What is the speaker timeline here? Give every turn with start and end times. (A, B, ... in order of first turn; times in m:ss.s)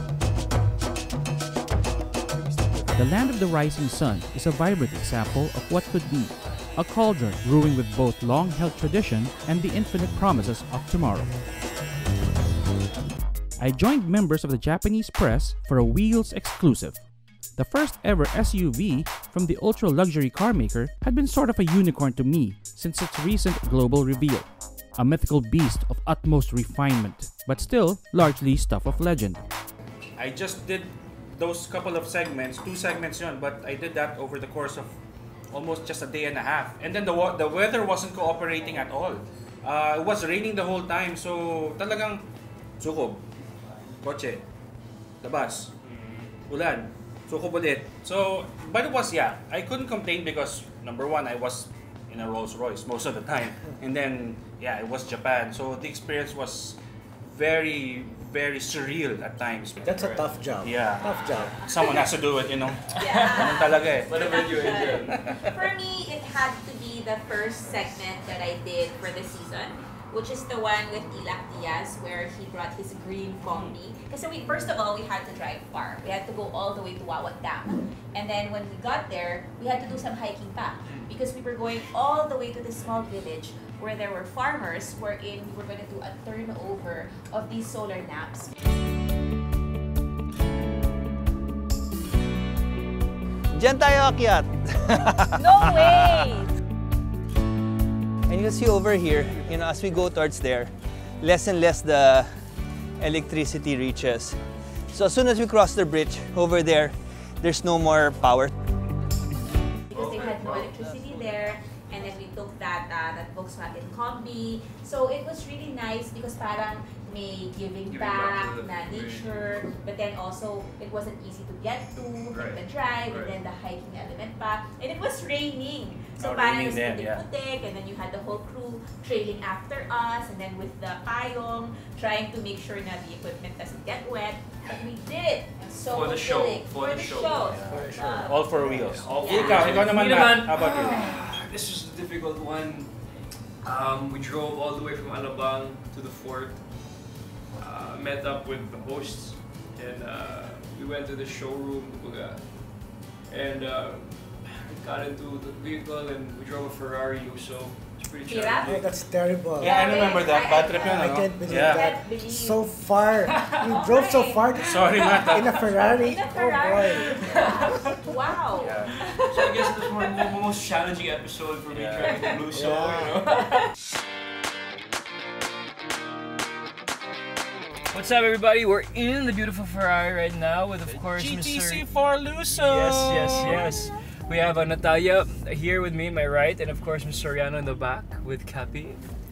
0:02.9-0:11.4 A
0:13.6-0:29.4 A
0:30.2-0:35.0 B
0:35.5-0:42.3 B
0:42.8-0:43.2 B
0:44.0-0:44.4 B
0:45.2-0:45.7 B
0:45.8-0:46.3 C
0:46.5-1:00.0 B
0:59.8-1:00.4 C
0:59.8-1:01.6 D
1:00.6-1:05.5 B
1:01.7-1:02.0 E
1:02.9-1:05.2 C
1:03.0-1:28.5 E
1:20.8-1:21.1 C
1:33.5-1:36.0 F
1:35.4-1:36.5 E
1:38.3-1:42.4 F
1:43.0-1:48.5 F
1:49.9-2:18.4 E
1:49.9-1:50.8 C
1:57.9-1:59.6 C
2:02.3-2:03.4 C
2:06.2-2:07.2 B
2:15.9-2:18.3 C
2:17.5-2:21.0 B
2:17.7-2:19.0 D
2:18.9-2:22.9 C
2:19.2-2:19.8 E
2:23.6-2:26.6 C
2:27.6-2:38.8 C
2:38.2-2:38.8 E
2:38.6-2:39.8 D
2:39.6-2:41.8 B
2:39.6-2:42.7 E
2:40.6-2:47.3 D
2:43.6-2:50.0 E
2:44.6-2:45.5 B
2:47.1-2:47.9 C
2:48.5-2:49.0 B
2:49.2-2:53.7 C
2:51.7-2:52.1 B
2:52.5-2:53.2 D
2:57.9-3:01.8 C
3:00.9-3:03.7 B
3:02.5-3:09.0 C